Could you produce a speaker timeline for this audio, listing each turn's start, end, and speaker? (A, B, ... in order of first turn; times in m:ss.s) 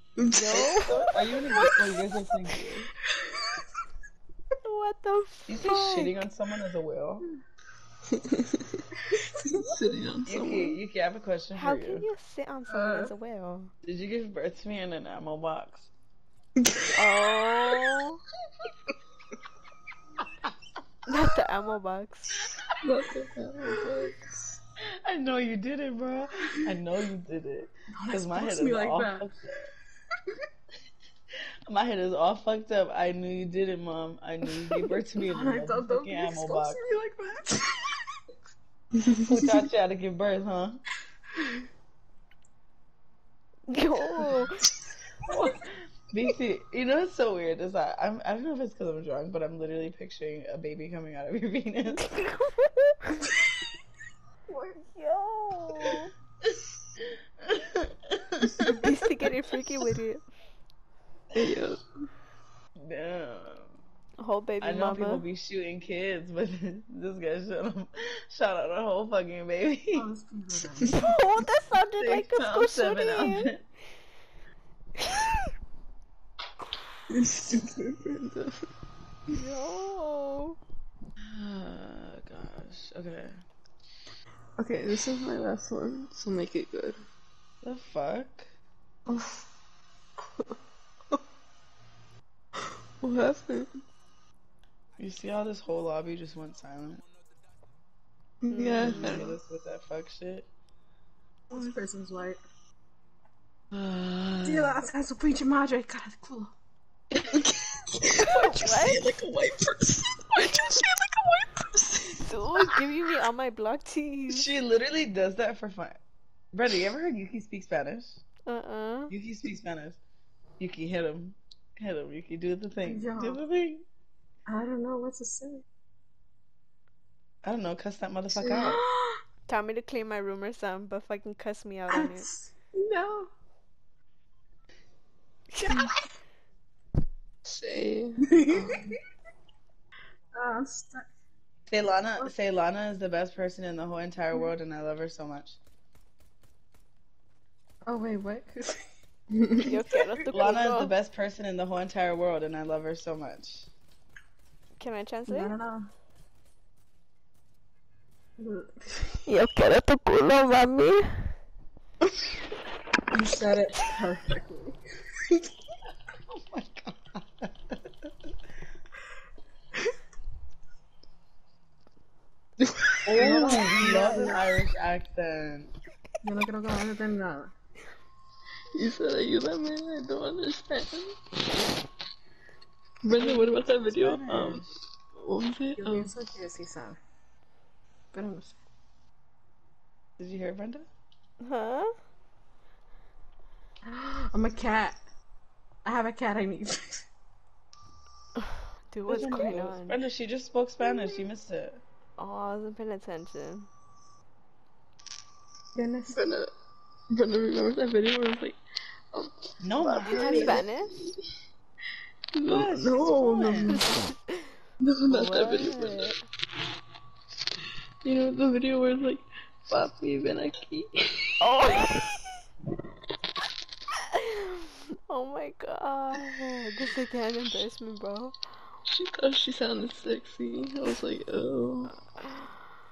0:00.3-0:02.9 A
0:00.3-0:02.0 B
0:03.2-0:03.6 C
0:04.6-0:06.2 B
0:05.5-0:07.3 A
0:08.1-0:08.8 D
0:09.5-0:10.8 D
0:10.3-0:12.0 A
0:11.6-0:13.7 B
0:12.7-0:13.1 C
0:13.8-0:15.9 A
0:17.0-0:18.2 B
0:21.1-0:22.4 B
0:22.8-0:24.2 D
0:25.0-0:29.6 A
0:27.9-0:29.3 C
0:31.7-0:36.8 A
0:35.2-0:37.9 C
0:39.1-0:40.8 A
0:43.7-0:44.6 B
0:45.3-0:52.1 A
0:52.0-0:53.3 B
0:54.5-0:56.1 B
0:57.4-0:57.9 A
0:58.7-1:00.2 B
1:01.3-1:01.8 D
1:02.8-1:03.7 A
1:04.2-1:05.2 B
1:04.6-1:10.1 A
1:10.0-1:11.1 C
1:10.9-1:13.5 B
1:12.0-1:13.6 A
1:17.1-1:18.7 D
1:19.3-1:20.6 B
1:21.3-1:23.4 A
1:24.6-1:27.0 D
1:27.6-1:28.5 A
1:29.1-1:29.4 D
1:33.0-1:33.8 D
1:35.0-1:37.0 A
1:38.4-1:39.4 D
1:38.5-1:39.3 B
1:38.8-1:40.5 A
1:41.5-1:42.4 C
1:43.7-1:44.8 A
1:44.4-1:46.5 C
1:47.2-1:52.6 D
1:48.2-1:49.0 B
1:52.2-1:54.5 B
1:54.3-1:56.0 A
1:56.5-1:58.2 A
1:58.5-1:59.1 B
1:59.1-2:00.0 A
2:00.6-2:03.8 A
2:02.8-2:03.4 C
2:04.5-2:05.6 C
2:07.4-2:08.8 A
2:08.3-2:09.2 C
2:09.5-2:12.3 B
2:11.9-2:13.3 C
2:15.5-2:15.9 B
2:17.4-2:19.0 D
2:18.3-2:19.0 C
2:20.3-2:21.1 C
2:21.7-2:25.6 A
2:27.8-2:29.8 C
2:29.6-2:31.0 B
2:30.3-2:33.7 A
2:34.8-2:35.6 B
2:35.3-2:35.9 C
2:38.4-2:39.2 C
2:39.3-2:41.3 B
2:43.1-2:44.8 C
2:46.3-2:48.1 A
2:52.7-2:53.3 D
2:53.1-2:55.7 A
2:53.2-2:54.4 C
2:56.2-2:57.5 C
2:58.7-3:01.1 D
3:03.0-3:04.7 D
3:03.1-3:04.7 A
3:05.2-3:06.1 D
3:05.8-3:07.0 C
3:08.1-3:08.6 C
3:10.2-3:10.9 A
3:11.4-3:11.9 B
3:13.8-3:15.0 C
3:15.8-3:17.0 C
3:18.9-3:20.0 B
3:19.1-3:21.8 A
3:22.2-3:23.7 B
3:25.8-3:26.2 C
3:26.1-3:26.5 D
3:27.1-3:28.6 D
3:29.1-3:31.1 D
3:29.6-3:30.6 A
3:30.1-3:30.9 B
3:30.3-3:30.6 C
3:32.3-3:33.9 D
3:32.5-3:33.8 A
3:33.7-3:34.4 B
3:34.8-3:36.1 D
3:35.1-3:36.2 B
3:38.0-3:41.5 D
3:41.4-3:42.1 B
3:44.2-3:48.4 B
3:48.9-3:51.9 D
3:51.9-3:52.5 B